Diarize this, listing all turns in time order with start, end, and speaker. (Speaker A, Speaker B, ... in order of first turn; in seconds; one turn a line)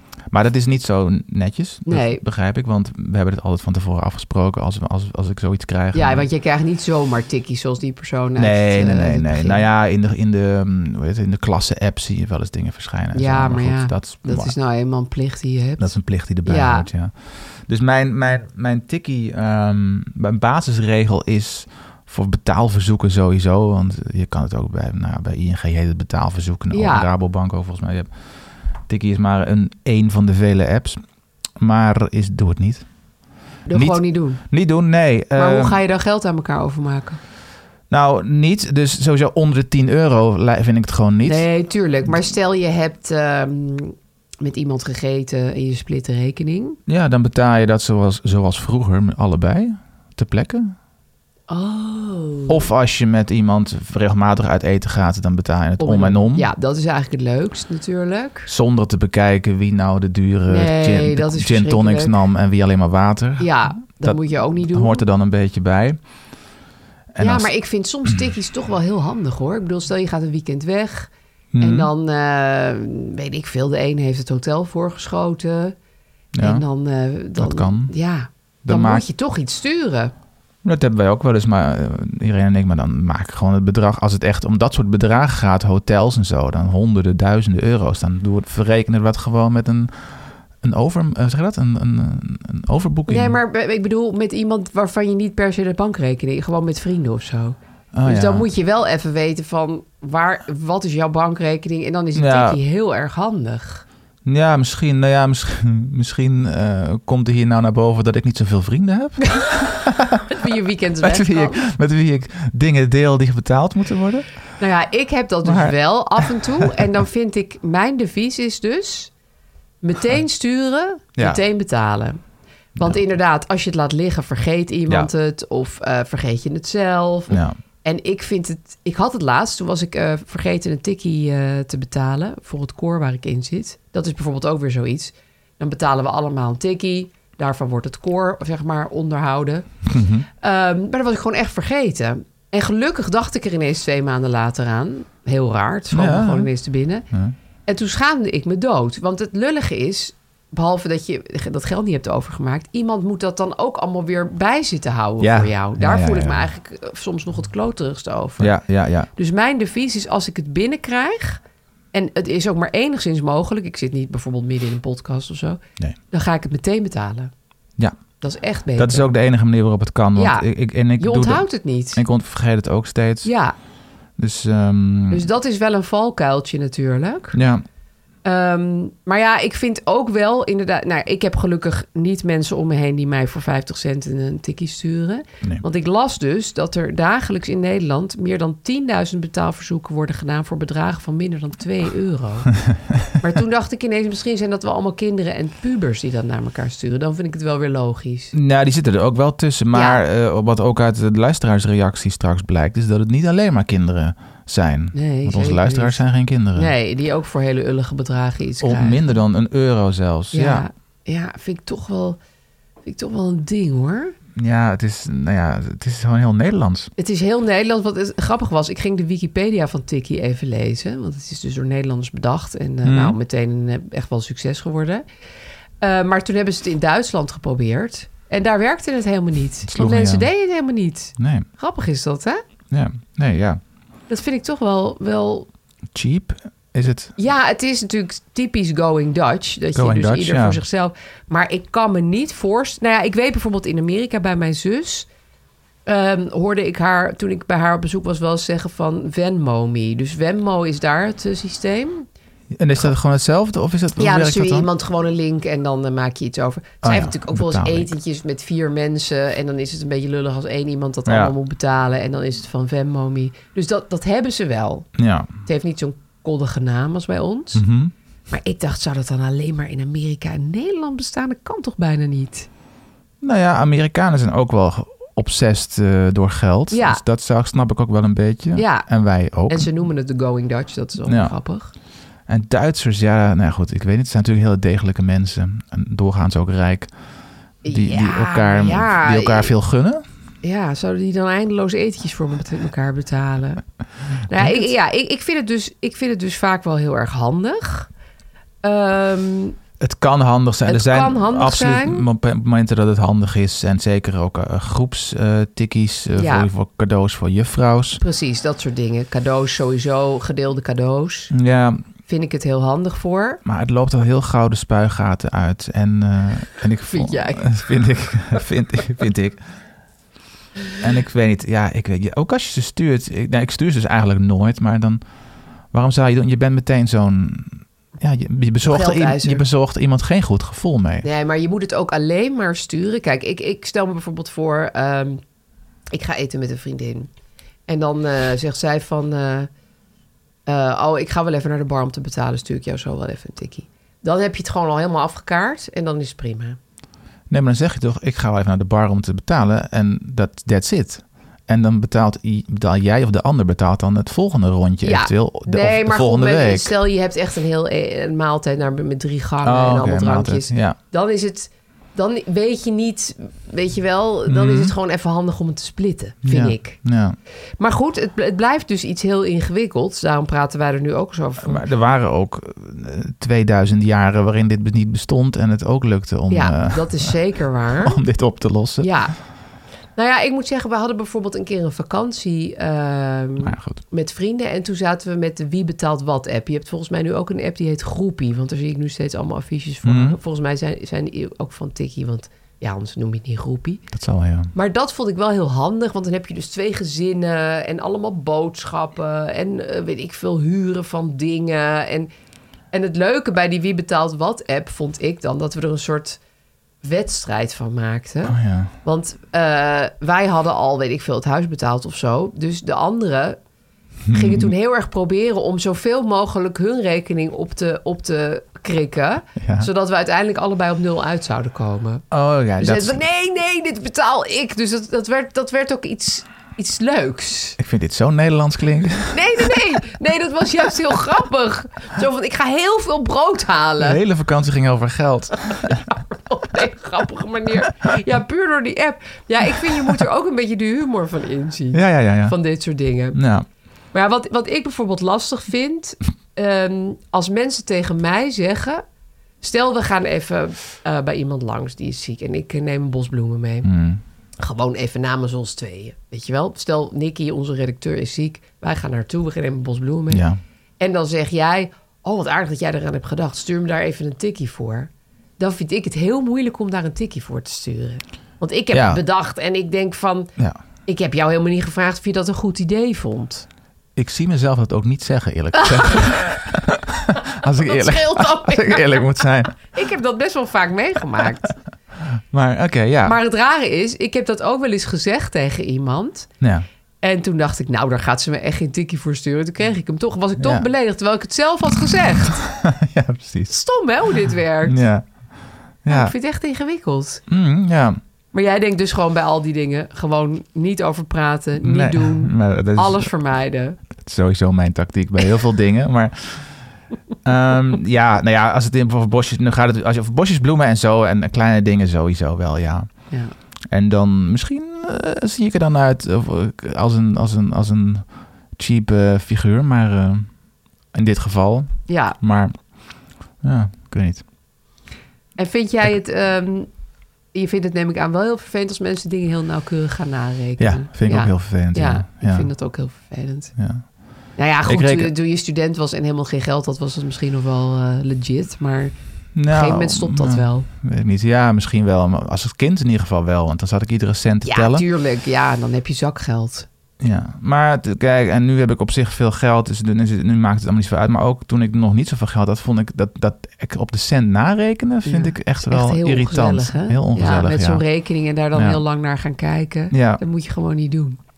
Speaker A: 0.3-6.3
Speaker B: 1.9-2.2
Speaker B: 5.9-9.6
Speaker A: 8.3-14.5
Speaker B: 13.1-16.9
Speaker A: 15.8-28.1
Speaker B: 26.7-27.1
Speaker A: 28.8-31.0
Speaker A: 31.6-32.9
Speaker B: 33.7-34.4
Speaker A: 33.7-35.8
Speaker B: 35.4-37.2
Speaker A: 37.9-41.5
Speaker B: 41.2-46.8
Speaker A: 46.9-50.7
Speaker B: 51.5-52.7
Speaker A: 52.5-56.5
Speaker B: 55.8-58.5
Speaker A: 58.5-66.0
Speaker B: 60.5-62.1
Speaker B: 63.4-65.0
Speaker A: 67.1-67.5
Speaker B: 67.2-75.7
Speaker A: 71.5-71.9
Speaker A: 76.3-76.6
Speaker B: 76.4-80.1
Speaker A: 77.3-77.9
Speaker A: 78.6-79.0
Speaker A: 80.6-93.4
Speaker B: 93.1-103.8
Speaker A: 97.9-98.5
Speaker A: 102.1-102.6
Speaker A: 104.2-110.2
Speaker B: 110.3-111.6
Speaker A: 111.0-114.3
Speaker B: 114.6-119.1
Speaker A: 115.4-116.7
Speaker B: 119.8-122.2
Speaker B: 122.8-139.7
Speaker A: 127.3-127.6
Speaker A: 139.9-140.3
Speaker B: 140.4-147.1
Speaker A: 145.9-146.5
Speaker B: 147.7-158.6
Speaker A: 155.2-156.5
Speaker A: 158.4-159.1
Speaker B: 159.1-161.4
Speaker B: 161.9-165.6
Speaker B: 166.1-167.3
Speaker B: 168.2-169.1
Speaker A: 168.8-173.3
Speaker B: 170.2-172.0
Speaker B: 173.2-173.5
Speaker A: 174.2-175.3
Speaker B: 175.1-177.4
Speaker A: 177.3-177.6
Speaker B: 178.2-192.5
Speaker B: 193.2-198.3
Speaker A: 198.3-206.7
Speaker B: 199.7-200.0
Speaker B: 204.9-206.0
Speaker B: 206.5-209.0
Speaker A: 208.6-210.6
Speaker B: 210.3-212.2
Speaker B: 212.8-214.1
Speaker A: 214.3-216.9
Speaker B: 217.0-225.0
Speaker A: 222.8-223.2
Speaker B: 225.8-232.4
Speaker A: 229.7-230.3
Speaker A: 231.2-231.5
Speaker A: 232.7-233.6
Speaker B: 234.1-235.5
Speaker A: 235.9-237.1
Speaker B: 237.2-245.1
Speaker A: 239.7-240.6
Speaker B: 245.8-252.1
Speaker A: 252.5-254.7
Speaker B: 254.0-264.9
Speaker A: 256.8-257.9
Speaker A: 261.1-261.3
Speaker A: 265.0-265.3
Speaker B: 265.4-267.6
Speaker A: 267.5-267.9
Speaker B: 268.3-272.5
Speaker A: 273.2-279.7
Speaker B: 276.7-277.0
Speaker B: 278.6-278.9
Speaker B: 279.5-281.7
Speaker A: 281.1-281.3
Speaker A: 282.3-286.9
Speaker B: 287.6-289.5
Speaker A: 287.6-290.0
Speaker B: 290.4-293.6
Speaker B: 294.2-297.9
Speaker A: 294.3-294.7
Speaker B: 298.6-299.6
Speaker A: 299.8-308.0
Speaker B: 300.6-302.1
Speaker B: 306.1-306.5
Speaker B: 308.0-311.3
Speaker A: 311.3-311.8
Speaker B: 312.1-313.4
Speaker A: 313.4-319.4
Speaker B: 316.9-317.6
Speaker A: 320.8-325.0
Speaker A: 325.7-331.1
Speaker B: 328.6-329.4
Speaker B: 331.0-335.2
Speaker B: 335.9-337.1
Speaker B: 337.7-339.5
Speaker B: 340.4-346.6
Speaker A: 347.3-356.7
Speaker B: 354.8-366.8
Speaker A: 359.4-360.8
Speaker A: 364.3-364.7
Speaker A: 366.2-367.2
Speaker B: 367.6-371.6
Speaker A: 371.4-377.1
Speaker B: 376.3-378.0
Speaker A: 377.8-378.9
Speaker B: 378.8-379.1
Speaker B: 379.9-393.8
Speaker A: 383.4-383.8
Speaker A: 389.8-390.2
Speaker A: 393.9-394.5
Speaker B: 394.5-402.1
Speaker B: 402.7-406.2
Speaker B: 406.8-413.4
Speaker A: 408.2-408.7
Speaker A: 414.1-414.5
Speaker B: 414.1-422.0
Speaker A: 419.4-419.7
Speaker A: 422.1-423.0
Speaker B: 422.6-427.6
Speaker A: 427.6-429.8
Speaker B: 429.1-434.0
Speaker A: 433.8-435.8
Speaker B: 435.9-443.2
Speaker A: 441.7-442.4
Speaker A: 443.1-443.4
Speaker B: 443.9-448.8
Speaker B: 449.4-453.7
Speaker A: 453.6-454.0
Speaker B: 454.4-460.2
Speaker A: 460.1-460.4
Speaker B: 460.8-470.3
Speaker A: 468.7-469.0
Speaker B: 470.9-473.4
Speaker A: 473.9-479.7
Speaker B: 475.5-476.3
Speaker B: 477.6-481.6
Speaker A: 482.1-483.2
Speaker B: 483.0-486.3
Speaker A: 486.4-486.6
Speaker B: 487.0-492.4
Speaker A: 490.4-490.7
Speaker A: 492.4-493.5
Speaker B: 493.5-494.8
Speaker A: 494.6-496.1
Speaker B: 495.9-497.2
Speaker A: 497.3-498.0
Speaker B: 498.3-503.8
Speaker A: 501.6-503.1
Speaker A: 504.0-506.6
Speaker A: 507.2-513.1
Speaker A: 513.7-520.3
Speaker A: 520.9-524.2
Speaker B: 521.9-522.2
Speaker B: 525.4-526.7
Speaker B: 527.3-533.5
Speaker A: 530.6-532.5
Speaker A: 533.6-533.9
Speaker B: 534.4-538.9
Speaker A: 534.6-535.1
Speaker A: 539.3-544.8
Speaker B: 539.5-540.7
Speaker B: 544.5-546.7
Speaker A: 547.0-557.9
Speaker B: 555.0-561.2
Speaker A: 558.5-558.8
Speaker A: 559.9-560.2